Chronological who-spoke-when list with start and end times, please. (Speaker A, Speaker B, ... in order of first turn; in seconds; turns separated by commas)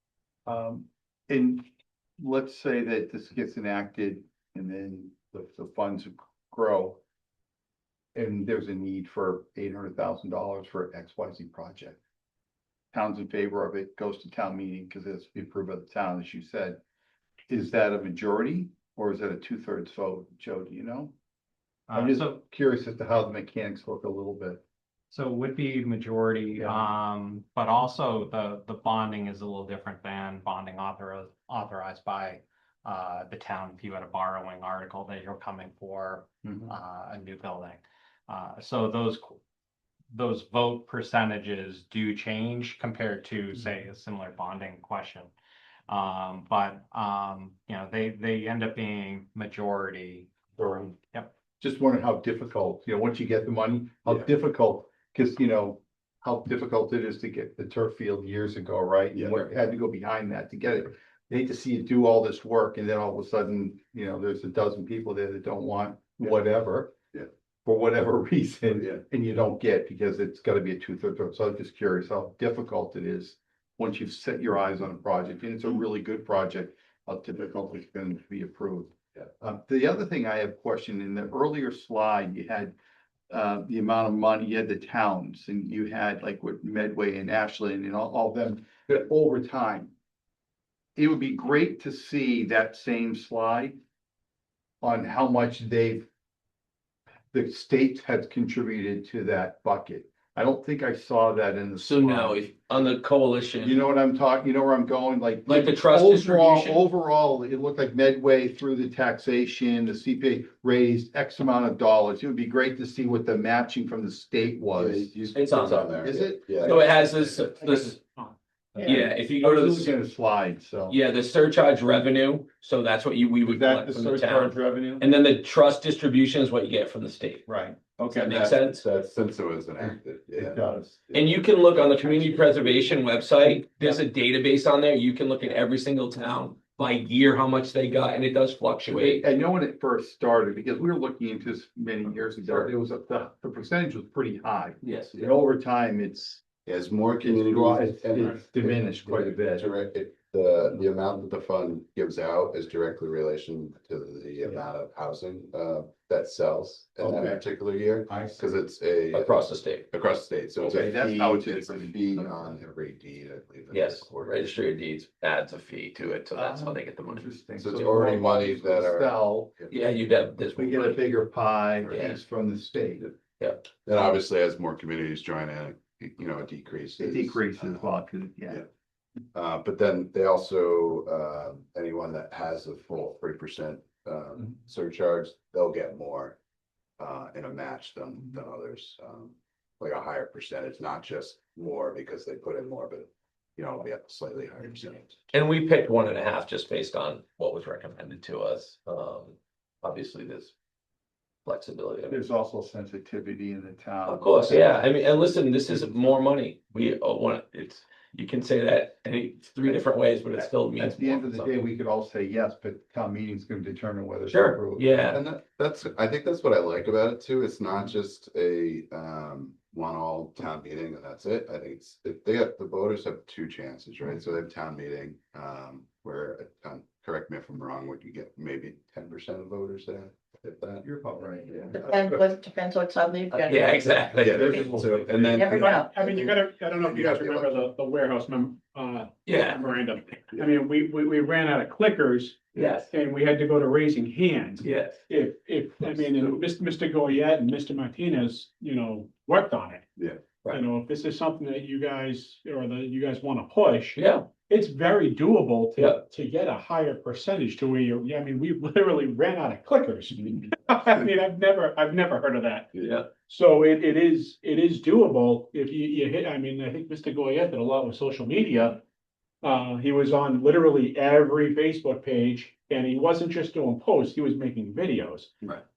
Speaker A: 0.5-1.6, Speaker A: 2.2-7.0, Speaker A: 8.1-12.0, Speaker A: 12.9-16.8, Speaker A: 17.5-21.1, Speaker B: 21.9-22.4, Speaker A: 21.9-24.6, Speaker B: 25.1-39.4, Speaker A: 26.6-26.9, Speaker A: 36.4-36.7, Speaker B: 40.1-45.3, Speaker B: 45.9-51.3, Speaker A: 50.6-51.0, Speaker A: 51.6-82.7, Speaker C: 59.1-59.4, Speaker C: 68.8-69.0, Speaker A: 83.3-89.9, Speaker A: 91.0-93.8, Speaker A: 94.8-96.1, Speaker A: 97.3-102.5, Speaker D: 101.8-103.8, Speaker A: 103.6-115.1, Speaker D: 105.5-106.8, Speaker C: 114.7-116.8, Speaker D: 115.3-118.0, Speaker A: 116.0-117.0, Speaker E: 116.9-119.1, Speaker A: 118.8-121.0, Speaker D: 118.8-119.9, Speaker D: 120.9-127.5, Speaker A: 123.4-125.1, Speaker A: 127.5-128.5, Speaker D: 128.0-128.8, Speaker C: 128.2-130.6, Speaker A: 129.8-134.0, Speaker D: 131.1-139.2, Speaker A: 138.9-146.4, Speaker D: 144.8-145.2, Speaker C: 146.6-164.1, Speaker A: 147.2-149.7, Speaker A: 157.0-157.4, Speaker A: 158.1-158.5, Speaker D: 159.1-159.9, Speaker A: 160.6-162.5, Speaker D: 163.7-167.3, Speaker A: 166.3-169.5, Speaker C: 167.6-169.7, Speaker D: 169.7-171.1, Speaker A: 170.6-173.1, Speaker D: 171.8-172.2, Speaker D: 173.0-173.6, Speaker C: 173.8-177.8, Speaker A: 177.0-178.6, Speaker C: 179.3-186.4, Speaker C: 187.0-195.2, Speaker D: 195.3-200.5, Speaker D: 201.4-202.2, Speaker A: 202.1-204.8, Speaker D: 204.1-211.5, Speaker A: 210.4-215.1, Speaker D: 214.2-215.2, Speaker C: 215.1-230.8, Speaker A: 230.8-232.0, Speaker F: 231.7-235.9, Speaker D: 233.3-234.6, Speaker C: 234.2-237.6, Speaker A: 234.2-235.2, Speaker E: 235.2-249.9, Speaker D: 239.2-239.6, Speaker D: 242.6-242.9, Speaker D: 244.6-245.0, Speaker E: 250.5-268.8, Speaker D: 253.9-254.3, Speaker D: 255.8-256.0, Speaker D: 262.7-263.1, Speaker E: 269.4-275.3